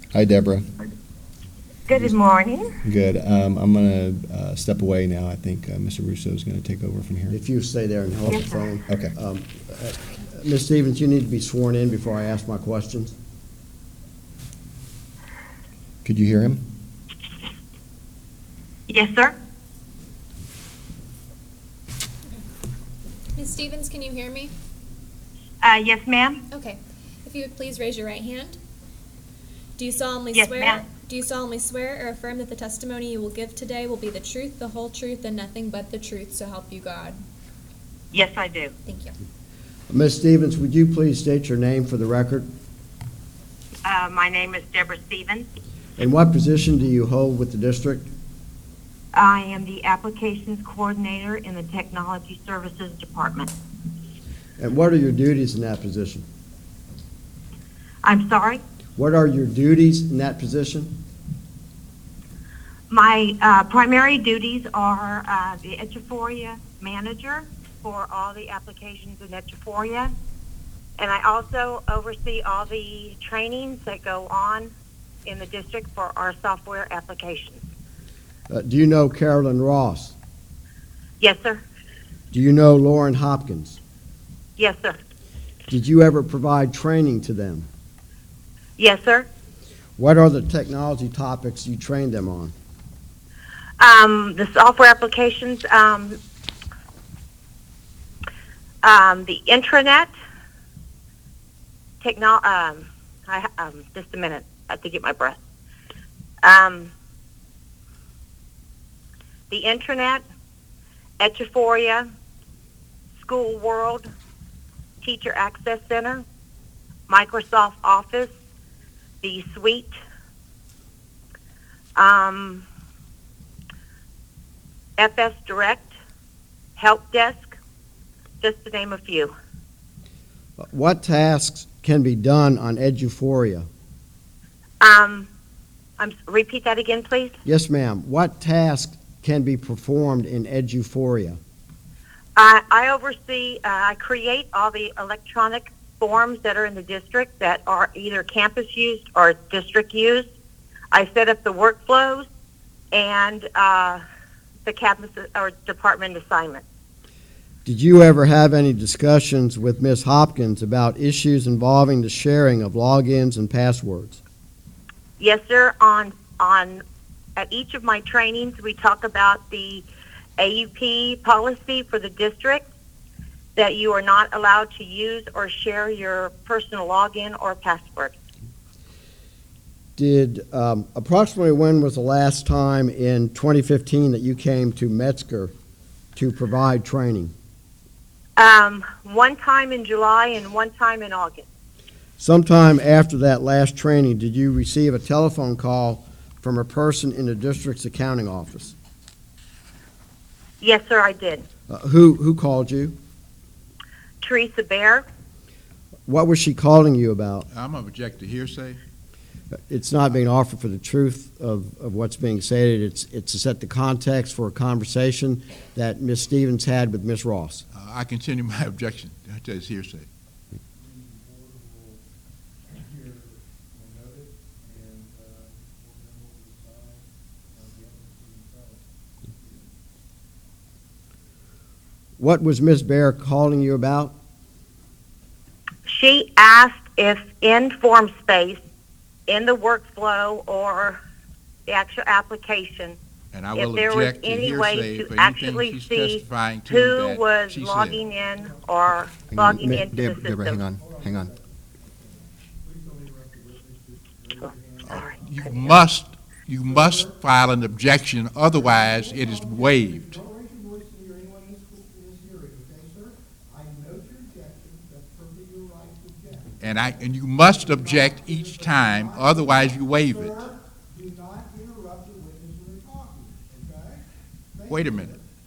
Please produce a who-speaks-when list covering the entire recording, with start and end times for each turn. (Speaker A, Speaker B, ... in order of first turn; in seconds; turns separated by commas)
Speaker A: 0.1-0.7, Speaker B: 1.9-2.7, Speaker A: 2.8-7.3, Speaker C: 7.3-13.1, Speaker B: 8.3-8.6, Speaker A: 8.9-9.1, Speaker A: 16.0-16.6, Speaker B: 18.9-19.4, Speaker D: 23.4-24.5, Speaker B: 25.6-26.4, Speaker D: 26.5-28.6, Speaker D: 29.8-37.2, Speaker B: 30.3-30.8, Speaker B: 38.1-38.7, Speaker D: 38.9-39.1, Speaker C: 39.9-42.5, Speaker B: 43.8-45.5, Speaker C: 46.0-48.1, Speaker B: 49.1-53.5, Speaker C: 54.6-56.2, Speaker B: 58.0-58.6, Speaker C: 59.0-60.9, Speaker B: 62.9-70.1, Speaker B: 71.0-74.7, Speaker B: 75.2-77.6, Speaker C: 78.5-80.1, Speaker B: 81.2-81.6, Speaker C: 82.3-83.8, Speaker B: 84.6-85.0, Speaker C: 85.7-87.7, Speaker B: 88.8-89.3, Speaker C: 90.0-92.5, Speaker B: 93.8-96.2, Speaker B: 98.8-100.1, Speaker B: 102.0-105.4, Speaker B: 106.4-106.9, Speaker B: 109.5-110.2, Speaker B: 111.2-112.0, Speaker B: 113.2-114.1, Speaker B: 115.0-116.2, Speaker B: 117.1-118.3, Speaker B: 119.2-119.9, Speaker B: 122.0-122.7, Speaker B: 125.0-125.9, Speaker B: 126.8-127.5, Speaker B: 128.4-129.3, Speaker C: 130.6-133.7, Speaker B: 134.8-135.3, Speaker B: 136.0-137.3, Speaker C: 137.4-141.4, Speaker B: 142.3-150.3, Speaker B: 150.9-152.3, Speaker B: 152.9-154.0, Speaker B: 154.7-156.6, Speaker C: 157.6-164.2, Speaker B: 165.2-166.8, Speaker B: 167.3-169.8, Speaker B: 170.4-172.6, Speaker B: 173.5-178.1, Speaker C: 180.0-185.5, Speaker C: 186.2-187.3, Speaker B: 188.4-191.4, Speaker C: 192.2-198.7, Speaker B: 200.6-201.4, Speaker C: 201.7-202.9, Speaker B: 204.2-205.0, Speaker C: 206.1-207.5, Speaker E: 207.5-208.8, Speaker C: 209.7-217.6, Speaker E: 217.7-220.1, Speaker F: 220.7-222.0, Speaker F: 222.7-229.7, Speaker C: 232.2-234.1, Speaker B: 235.8-238.6, Speaker B: 239.3-241.0, Speaker B: 241.7-243.0, Speaker E: 243.3-248.0, Speaker B: 243.6-250.6, Speaker F: 248.3-248.6, Speaker A: 249.3-251.3, Speaker F: 250.7-255.7, Speaker E: 254.8-260.1, Speaker F: 256.7-257.1, Speaker F: 258.5-275.2, Speaker E: 266.6-270.4, Speaker E: 274.7-275.1